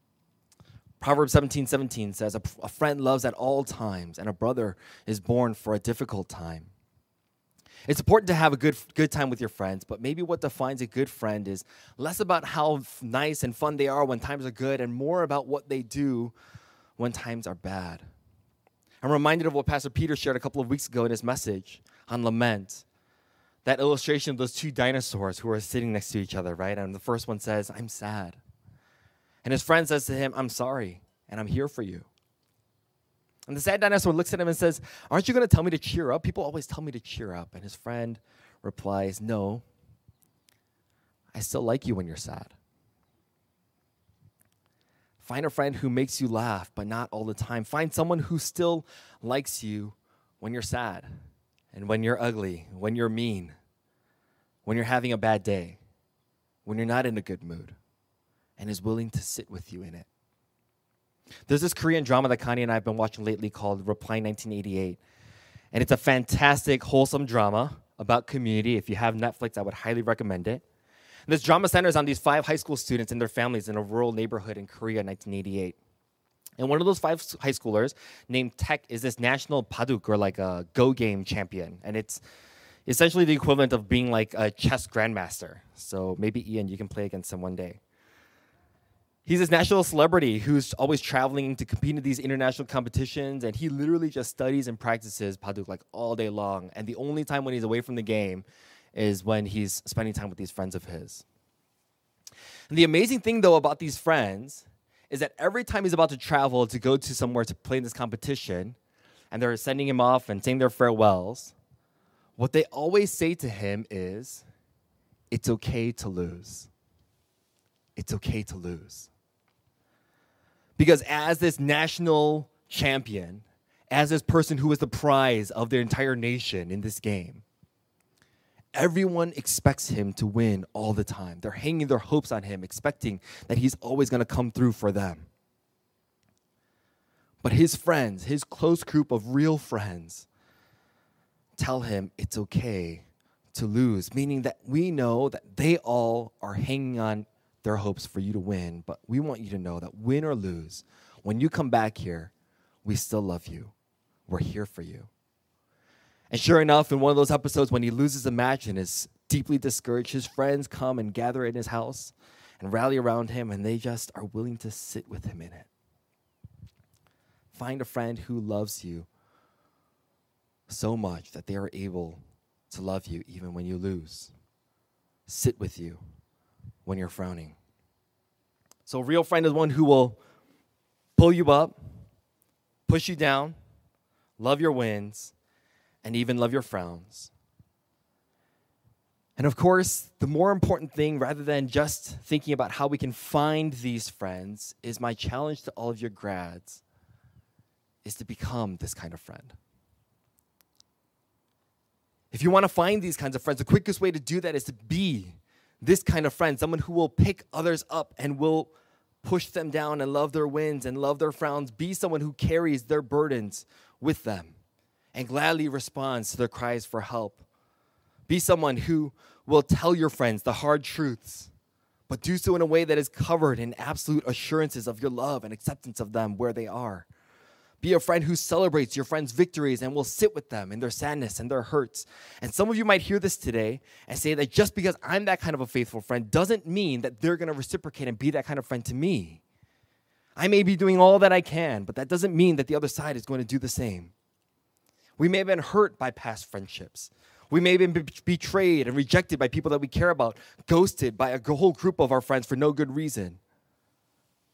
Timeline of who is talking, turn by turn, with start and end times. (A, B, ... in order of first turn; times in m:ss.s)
0:01.0-0:06.7 A
0:07.9-0:16.3 A
0:17.0-0:18.0 A
0:19.0-0:22.8 A
0:23.6-0:28.4 A
0:29.4-0:32.1 A
0:33.5-0:39.6 A
0:41.3-0:42.5 A
0:45.2-0:51.1 A
0:51.7-0:53.6 A
0:54.6-0:55.8 A
0:56.6-0:57.8 A
0:58.6-1:00.1 A
1:01.5-1:05.0 A
1:05.7-1:10.6 A
1:11.3-1:15.8 A
1:16.6-1:22.2 A
1:22.8-1:27.8 A
1:29.2-1:41.2 A
1:42.7-1:48.8 A
1:49.3-1:51.6 A
1:52.4-1:54.4 A
1:55.3-1:56.7 A
1:58.0-1:59.1 A
2:00.8-2:07.4 A
2:08.7-2:15.3 A
2:17.4-2:20.3 A
2:21.6-2:32.3 A
2:32.8-2:33.7 A
2:34.3-2:35.1 A
2:36.3-2:45.7 A
2:47.5-2:49.1 A
2:50.7-2:54.3 A
2:55.3-2:56.0 A
2:56.8-2:57.6 A
2:58.8-3:00.2 A
3:01.2-3:01.8 A
3:02.9-3:03.6 A
3:04.4-3:05.3 A
3:06.0-3:07.3 A
3:09.4-3:16.8 A
3:18.0-3:19.6 A
3:22.3-3:28.7 A
3:29.2-3:34.6 A
3:35.1-3:37.4 A
3:38.3-3:41.5 A
3:42.1-3:47.1 A
3:47.8-3:59.4 A
4:00.4-4:04.1 A
4:05.2-4:13.4 A